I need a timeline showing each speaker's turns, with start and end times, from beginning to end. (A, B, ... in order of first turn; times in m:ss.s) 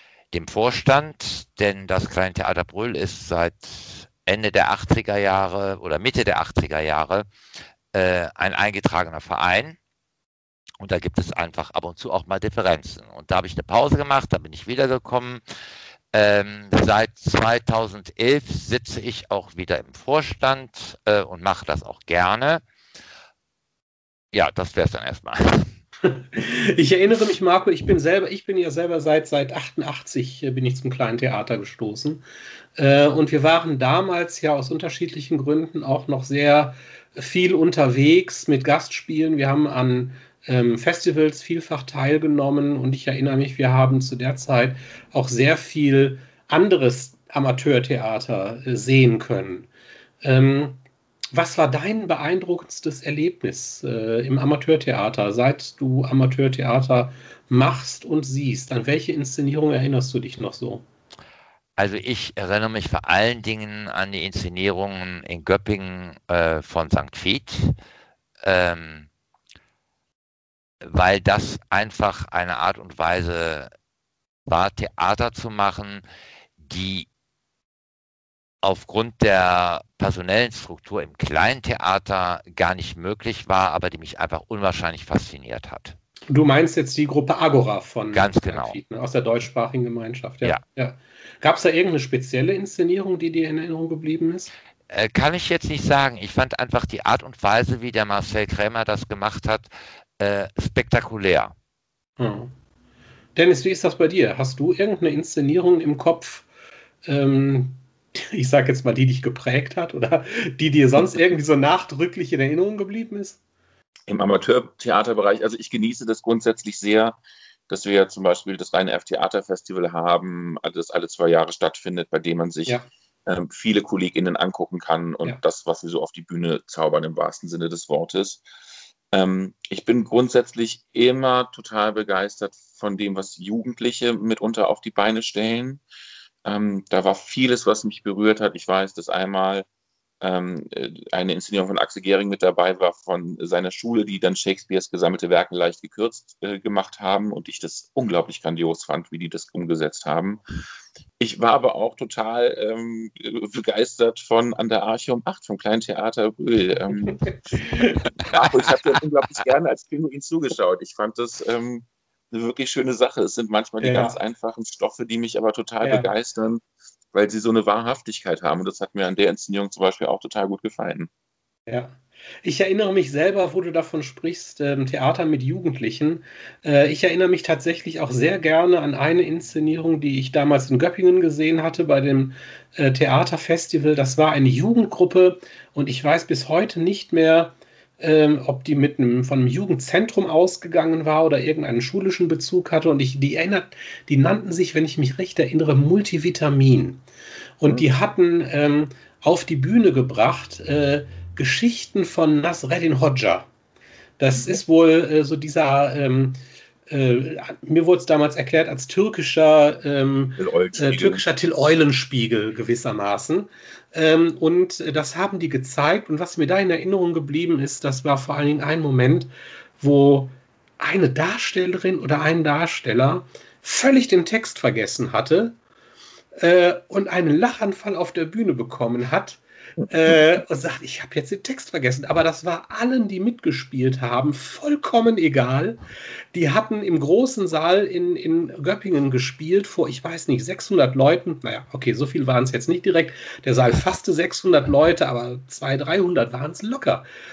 0:00.3-0:07.3 A
0:07.9-0:09.8 A
0:10.8-0:15.4 A
0:16.1-0:22.6 A
0:24.3-0:25.7 A
0:26.0-0:32.2 B
0:32.8-0:49.7 B
0:50.2-0:50.8 B
0:51.3-1:00.8 B
1:01.8-1:07.7 A
1:08.4-1:09.1 A
1:10.8-1:13.7 A
1:14.5-1:16.0 A
1:16.6-1:17.1 A
1:18.6-1:26.0 A
1:26.3-1:34.5 B
1:28.1-1:28.8 A
1:34.9-1:41.5 A
1:42.2-1:42.5 B
1:43.3-1:46.5 B
1:47.0-1:53.4 B
1:54.1-2:08.4 C
2:09.1-2:15.8 C
2:16.4-2:19.7 C
2:20.2-2:30.4 C
2:31.2-2:37.2 C
2:36.9-2:38.0 B
2:38.2-2:46.6 C
2:43.8-2:44.2 B
2:45.8-2:46.1 B
2:47.1-2:51.1 C
2:51.7-3:17.0 B
3:17.6-3:23.5 B
3:24.2-3:45.5 B
3:30.4-3:31.2 C
3:46.4-3:55.8 B
3:56.3-4:07.0 B